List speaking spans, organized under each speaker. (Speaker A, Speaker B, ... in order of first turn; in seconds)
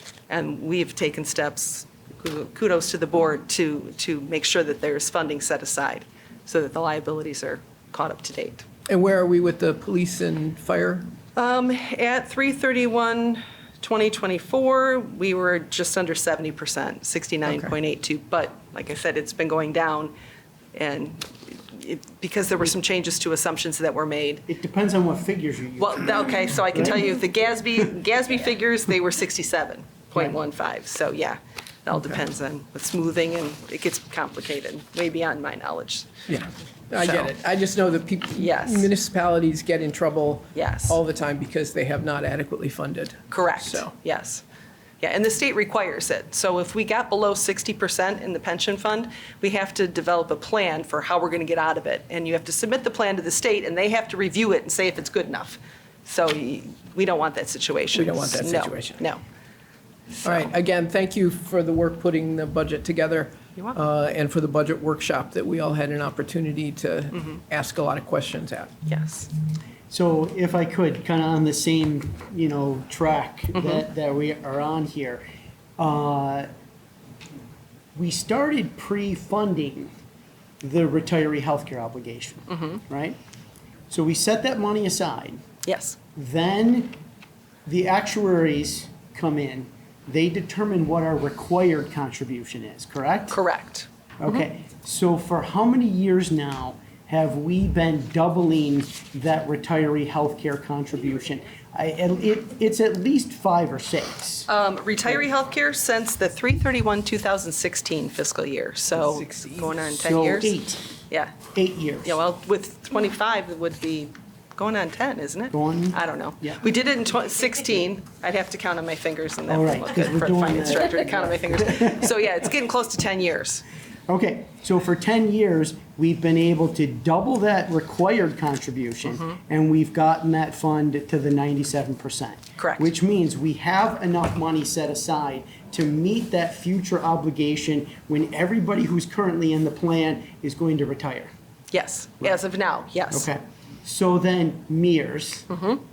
Speaker A: 0.3-8.7, 11.3-20.1, 20.7-24.4, 25.8-36.1, 37.0-37.3, 38.4-38.9, 40.5-41.0, 43.3-44.4, 45.0-59.2, 68.9-69.3, 82.5-82.8, 85.7-86.0, 93.3-94.4, 104.5-110.6, 111.1-111.4, 112.0-123.6, 132.6-132.9, 141.7-143.3, 145.5-145.8
Speaker B: 8.9-11.1, 36.3-43.9, 57.9-59.0, 60.2-68.7, 109.2-109.6
Speaker C: 24.5-27.0, 69.9-75.2, 75.8-76.5, 77.9-79.9, 80.6-83.2, 83.9-85.4, 86.2-87.0, 87.7-93.4, 94.2-104.5, 110.0-110.8, 111.5-112.2, 115.5-116.6, 119.5-122.2, 124.1-141.3, 143.1-145.5